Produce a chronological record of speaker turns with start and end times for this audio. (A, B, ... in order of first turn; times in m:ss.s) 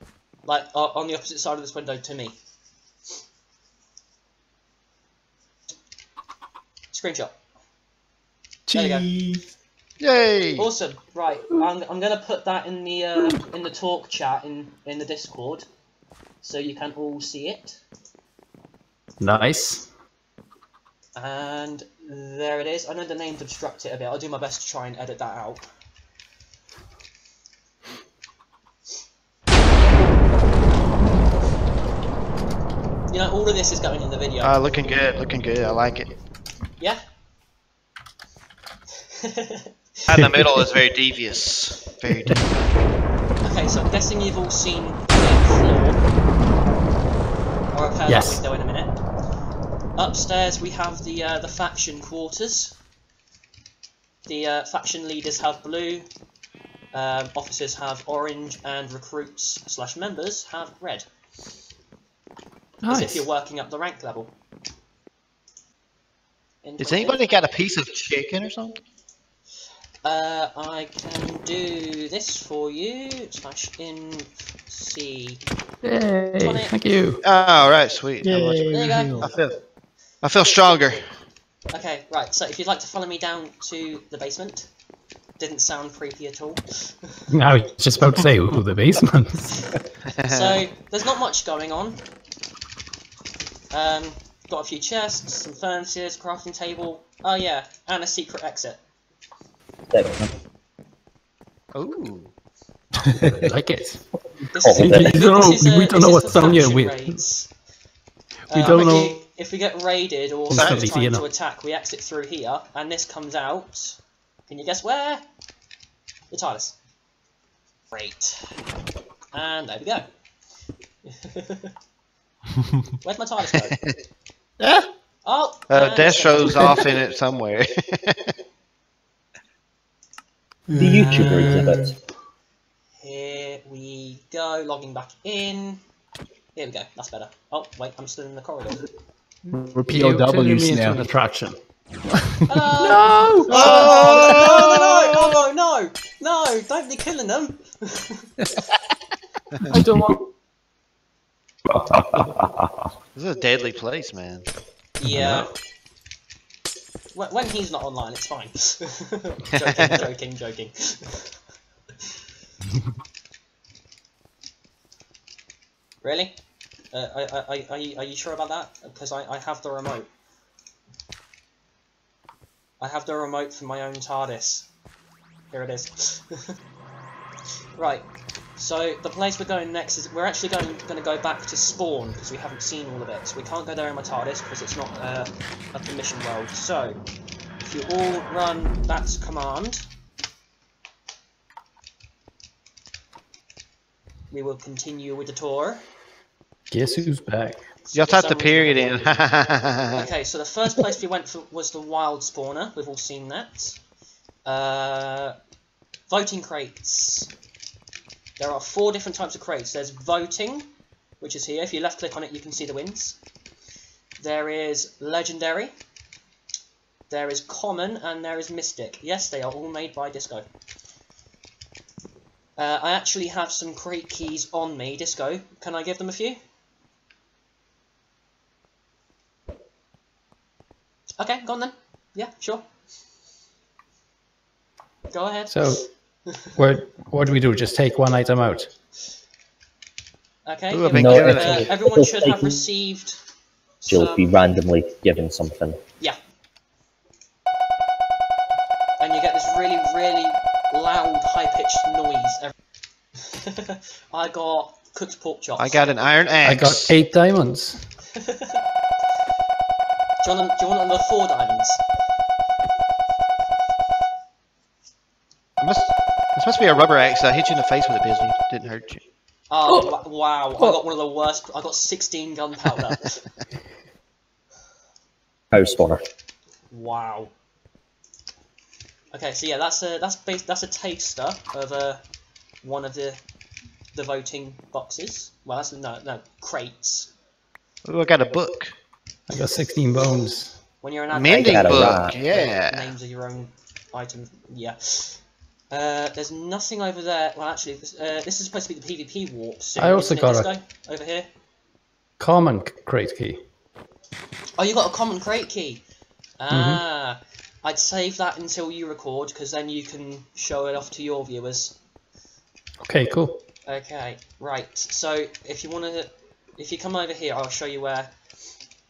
0:00.4-0:02.4 A
0:06.9-0:07.3 A
0:08.7-0:09.4 B
0:08.7-0:09.1 A
0:10.0-0:10.7 C
0:10.6-0:15.6 A
0:16.4-0:17.8 A
0:19.2-0:19.9 B
0:21.2-0:25.6 A
0:33.1-0:34.6 A
0:34.4-0:36.1 C
0:39.1-0:39.7 A
0:40.1-0:42.6 C
0:43.4-0:46.0 A
0:47.7-0:48.9 A
0:48.1-0:48.4 B
0:50.0-0:52.8 A
0:54.2-0:56.0 A
0:56.9-1:01.0 A
1:02.8-1:03.2 B
1:02.9-1:04.3 A
1:06.6-1:07.2 A
1:06.8-1:08.8 C
1:10.0-1:15.4 A
1:15.8-1:17.2 B
1:16.4-1:16.7 A
1:17.2-1:19.5 C
1:18.2-1:19.3 D
1:18.7-1:19.3 A
1:20.2-1:21.0 C
1:21.7-1:24.7 A
1:25.4-1:27.2 A
1:27.3-1:29.7 B
1:30.1-1:30.6 C
1:30.3-1:32.0 A
1:33.7-1:38.8 A
1:39.9-1:40.3 E
1:41.7-1:42.3 C
1:43.4-1:44.0 B
1:44.5-1:47.5 A
1:44.6-1:45.2 E
1:44.8-1:47.2 B
1:48.5-1:49.2 B
1:48.5-1:55.2 A
1:50.5-1:51.2 B
1:50.5-1:50.8 C
1:56.3-1:56.8 A
1:57.9-1:58.5 A
1:59.3-2:00.0 A
2:01.1-2:01.7 A
2:03.0-2:03.8 A
2:04.6-2:04.9 C
2:05.2-2:06.9 A
2:05.7-2:08.3 C
2:10.7-2:11.9 D
2:10.8-2:12.0 E
2:13.0-2:15.8 A
2:16.6-2:18.8 A
2:19.4-2:21.0 D
2:19.9-2:21.6 B
2:22.5-2:28.3 A
2:22.8-2:24.5 B
2:23.5-2:25.3 C
2:29.7-2:30.2 B
2:31.6-2:32.9 E
2:33.1-2:34.5 C
2:35.0-2:35.5 A
2:35.0-2:35.4 B
2:35.1-2:35.4 E
2:37.1-2:41.3 A
2:39.5-2:40.0 C
2:46.0-2:46.4 A
2:46.9-2:50.1 A
2:52.8-2:54.7 A
2:55.5-2:56.5 A
2:57.8-2:58.0 A
2:58.6-3:07.0 A
3:07.6-3:09.8 A
3:14.3-3:15.8 A
3:16.7-3:17.6 B
3:17.8-3:19.2 A
3:17.9-3:20.1 C
3:19.9-3:23.8 A
3:24.4-3:25.3 A
3:26.1-3:27.3 A
3:28.4-3:30.7 A
3:31.2-3:33.2 A
3:34.2-3:35.7 A
3:37.1-3:40.4 A
3:42.6-3:46.4 A
3:51.2-3:52.6 A
3:55.1-3:56.5 A
3:55.5-3:55.8 B
3:56.6-3:58.7 B
4:00.4-4:03.2 A
4:00.7-4:01.7 C
4:00.9-4:02.6 E
4:03.8-4:04.3 A
4:03.8-4:05.8 E
4:09.0-4:12.5 A
4:13.2-4:15.9 A
4:15.6-4:16.9 C
4:16.4-4:17.8 B
4:18.2-4:18.6 A
4:20.2-4:21.8 A
4:25.6-4:29.0 C
4:29.5-4:33.2 A
4:35.5-4:36.0 E
4:36.7-4:37.3 A
4:39.1-4:42.0 A
4:42.6-4:43.2 A
4:43.9-4:47.1 A
4:47.8-4:48.7 C
4:49.3-4:50.6 B
4:50.8-4:55.2 A
4:51.1-4:52.9 C
4:51.4-4:52.2 E
4:55.7-5:01.3 A
4:59.8-5:00.5 B
5:02.2-5:03.4 B
5:04.6-5:05.8 A
5:06.4-5:11.8 A
5:06.5-5:06.8 B
5:12.8-5:13.4 B
5:13.6-5:18.1 A